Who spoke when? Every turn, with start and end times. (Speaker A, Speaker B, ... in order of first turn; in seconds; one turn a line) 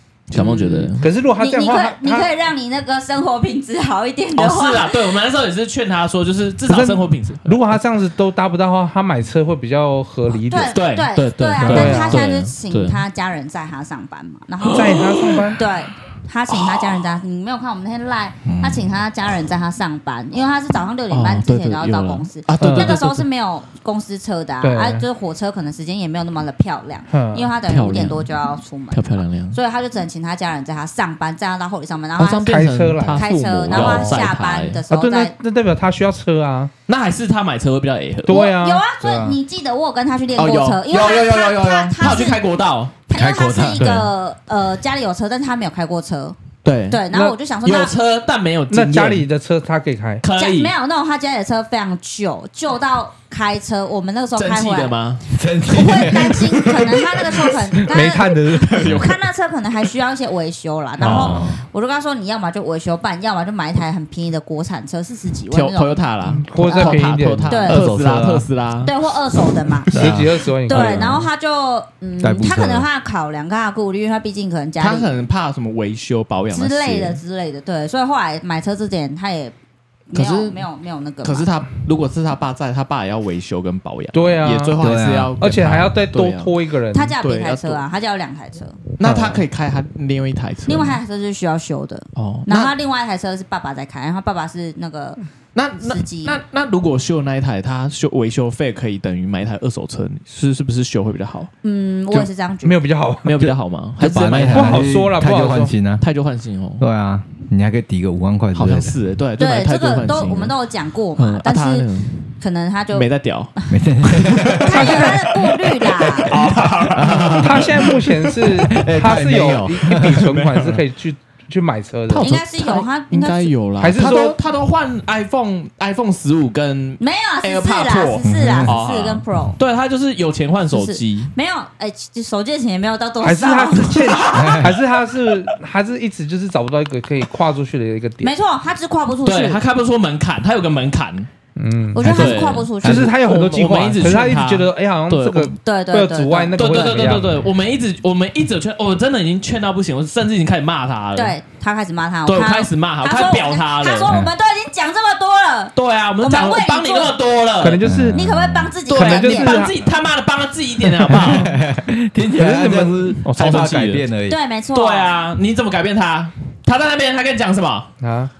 Speaker A: 0.3-1.1
Speaker B: 0.3-5.0
Speaker C: 1.0-2.3
Speaker A: 4.4-7.8
Speaker C: 6.7-10.8
Speaker B: 10.3-35.3
Speaker A: 10.7-13.0
Speaker C: 11.6-12.2
Speaker A: 14.6-15.6
Speaker C: 14.7-15.6
Speaker A: 16.5-17.2
Speaker D: 18.4-18.9
Speaker A: 21.1-23.2
Speaker C: 22.6-23.0
Speaker C: 24.6-25.1
Speaker C: 27.1-27.5
Speaker A: 27.7-28.3
Speaker A: 28.9-29.6
Speaker A: 32.2-34.8
Speaker C: 32.5-34.2
Speaker C: 34.9-36.7
Speaker A: 36.9-38.4
Speaker C: 38.2-39.4
Speaker B: 38.3-42.4
Speaker A: 40.4-42.9
Speaker B: 43.1-46.4
Speaker D: 43.1-44.1
Speaker A: 46.6-49.3
Speaker B: 46.9-47.9
Speaker C: 48.7-50.2
Speaker A: 50.2-50.7
Speaker B: 50.3-55.0
Speaker A: 54.4-55.2
Speaker D: 55.3-57.5
Speaker B: 55.7-66.0
Speaker C: 57.9-58.9
Speaker A: 58.6-59.2
Speaker A: 61.0-61.5
Speaker D: 61.0-61.6
Speaker A: 65.5-68.9
Speaker C: 66.2-67.6
Speaker B: 66.7-67.8
Speaker D: 67.7-68.5
Speaker B: 68.8-70.0
Speaker A: 69.9-70.2
Speaker D: 69.9-71.3
Speaker C: 70.0-71.2
Speaker B: 70.7-75.1
Speaker D: 72.2-72.8
Speaker A: 74.8-77.2
Speaker B: 76.5-79.5
Speaker B: 80.1-81.5
Speaker A: 80.1-80.6
Speaker A: 81.2-86.6
Speaker C: 84.1-84.8
Speaker D: 84.8-85.3
Speaker C: 85.4-87.2
Speaker B: 86.9-88.8
Speaker A: 87.2-87.8
Speaker A: 89.0-91.0
Speaker D: 89.0-89.4
Speaker B: 90.7-95.2
Speaker A: 92.2-92.7
Speaker A: 95.5-101.5
Speaker B: 95.8-96.4
Speaker B: 101.6-102.8
Speaker C: 102.1-103.5
Speaker A: 103.2-104.9
Speaker D: 104.0-106.0
Speaker C: 104.2-105.7
Speaker A: 106.0-106.8
Speaker D: 106.8-108.9
Speaker A: 108.5-110.5
Speaker B: 109.4-111.9
Speaker A: 111.2-112.2
Speaker B: 112.4-113.8
Speaker A: 112.9-113.5
Speaker D: 113.7-115.0
Speaker A: 114.2-118.7
Speaker B: 114.6-116.4
Speaker C: 114.8-115.1
Speaker C: 116.5-116.8
Speaker D: 116.9-117.9
Speaker C: 117.4-122.4
Speaker D: 118.5-120.3
Speaker A: 120.0-120.8
Speaker A: 122.1-131.3
Speaker B: 122.2-123.5
Speaker C: 123.8-124.4
Speaker B: 127.0-129.6
Speaker D: 128.2-128.7
Speaker B: 130.7-134.4
Speaker C: 133.2-138.3
Speaker D: 134.3-134.7
Speaker B: 138.2-139.6
Speaker A: 139.2-141.3
Speaker C: 141.6-147.3
Speaker B: 141.9-143.1
Speaker D: 142.0-143.1
Speaker A: 142.0-145.5
Speaker B: 145.6-147.0
Speaker A: 146.6-151.3
Speaker B: 151.1-157.2
Speaker A: 152.2-154.2
Speaker A: 155.7-157.8
Speaker C: 157.6-158.2
Speaker D: 157.8-158.7
Speaker B: 158.1-159.6
Speaker C: 158.9-159.8
Speaker A: 158.9-161.5
Speaker C: 161.0-161.5
Speaker D: 161.1-164.4
Speaker C: 162.2-163.5
Speaker A: 163.3-164.1
Speaker B: 164.3-165.2
Speaker A: 164.7-167.9
Speaker C: 168.0-168.3